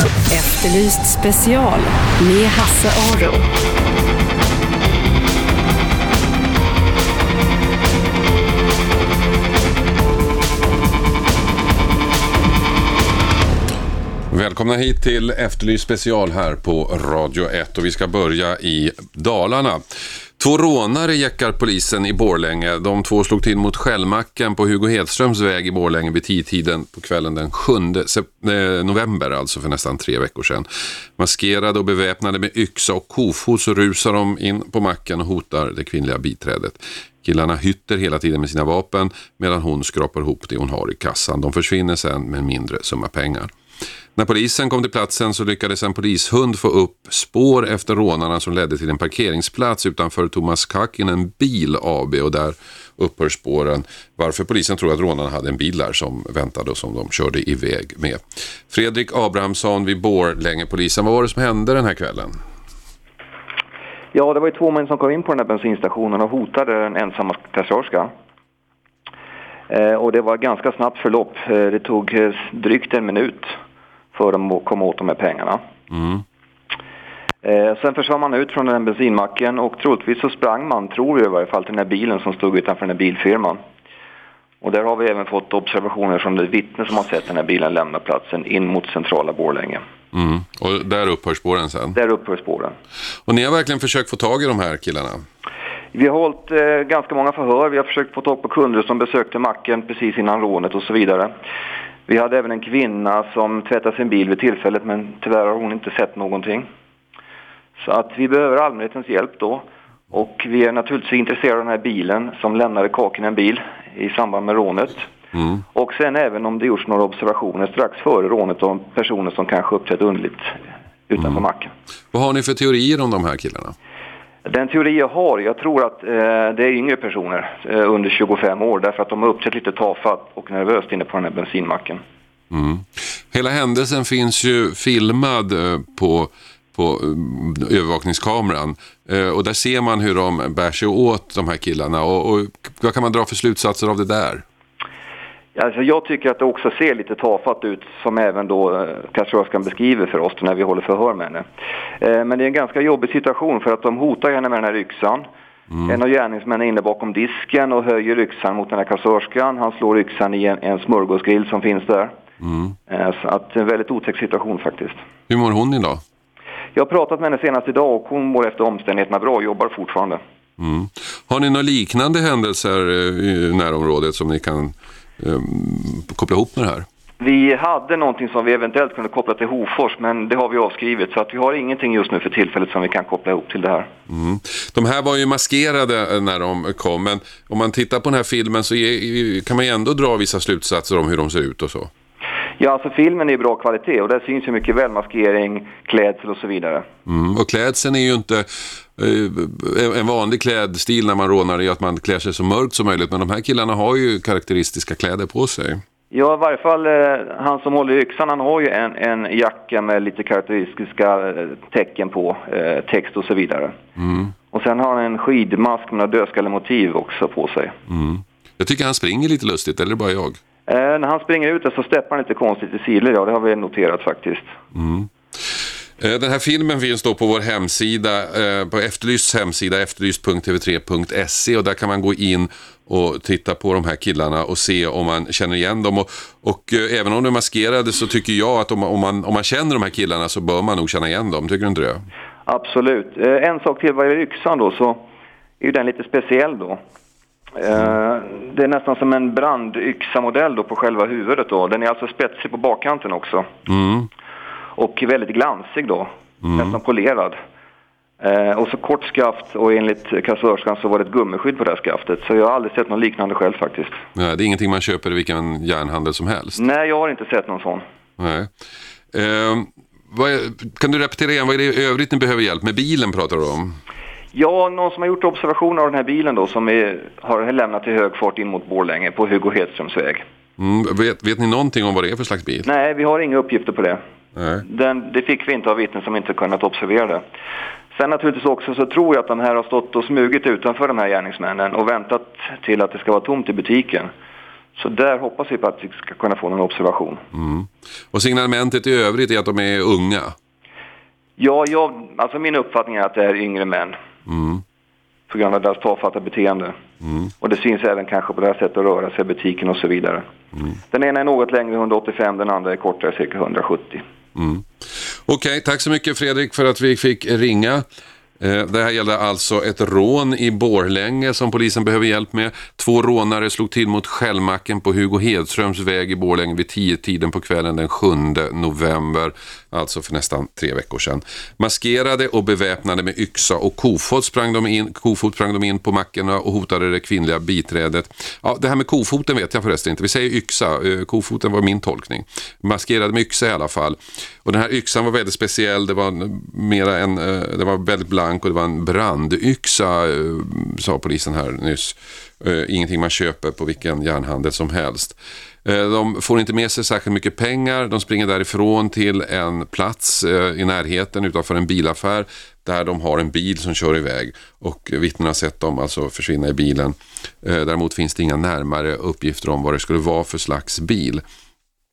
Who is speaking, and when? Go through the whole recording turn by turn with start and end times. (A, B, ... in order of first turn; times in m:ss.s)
0:00.3-0:03.4 A
0:14.3-0:19.8 B
0:20.4-0:43.5 B
0:44.2-1:02.4 B
1:04.1-1:08.1 C
1:09.7-1:13.5 C
1:14.1-1:15.6 C
1:15.9-1:16.2 B
1:17.4-1:23.6 C
1:24.6-1:29.8 C
1:30.1-1:32.0 B
1:31.9-1:32.7 C
1:33.2-1:35.2 B
1:35.9-1:41.3 C
1:42.1-1:46.7 C
1:47.8-1:55.1 C
1:55.7-2:00.5 C
2:01.1-2:01.7 C
2:02.1-2:03.7 B
2:04.4-2:12.0 C
2:12.5-2:24.4 B
2:25.5-2:31.4 C
2:32.0-2:35.2 C
2:35.8-2:42.1 C
2:42.4-2:42.7 B
2:42.9-2:45.0 C
2:45.3-2:46.0 B
2:46.7-2:50.2 C
2:50.6-2:56.9 B
2:57.2-3:03.9 C
3:04.1-3:11.9 B
3:12.6-3:16.8 C
3:17.0-3:25.8 B
3:26.1-3:33.8 C
3:34.0-3:34.3 B
3:34.5-3:37.8 C
3:37.9-3:40.4 B
3:40.7-3:44.5 C
3:44.7-4:02.0 B
4:02.4-4:05.0 C
4:05.6-4:06.8 C
4:07.6-4:13.5 C
4:13.7-4:14.1 B
4:14.8-4:17.4 C
4:16.4-4:16.8 B
4:18.2-4:24.0 C
4:24.1-4:26.6 B
4:26.6-4:27.8 C
4:28.2-4:28.5 B
4:29.1-4:33.8 B
4:34.3-4:40.2 C
4:40.6-4:42.7 B
4:42.6-4:44.0 C
4:44.4-4:44.6 B
4:44.6-4:47.2 C
4:47.9-4:54.1 C
4:54.8-4:57.2 C
4:57.3-5:00.4 B
5:01.4-5:04.0 C
5:04.3-5:04.6 B
5:05.3-5:06.8 C
5:07.0-5:07.3 B
5:07.4-5:10.2 C
5:10.9-5:14.0 C
5:14.4-5:14.6 B
5:15.2-5:17.8 B
5:18.4-6:11.2 B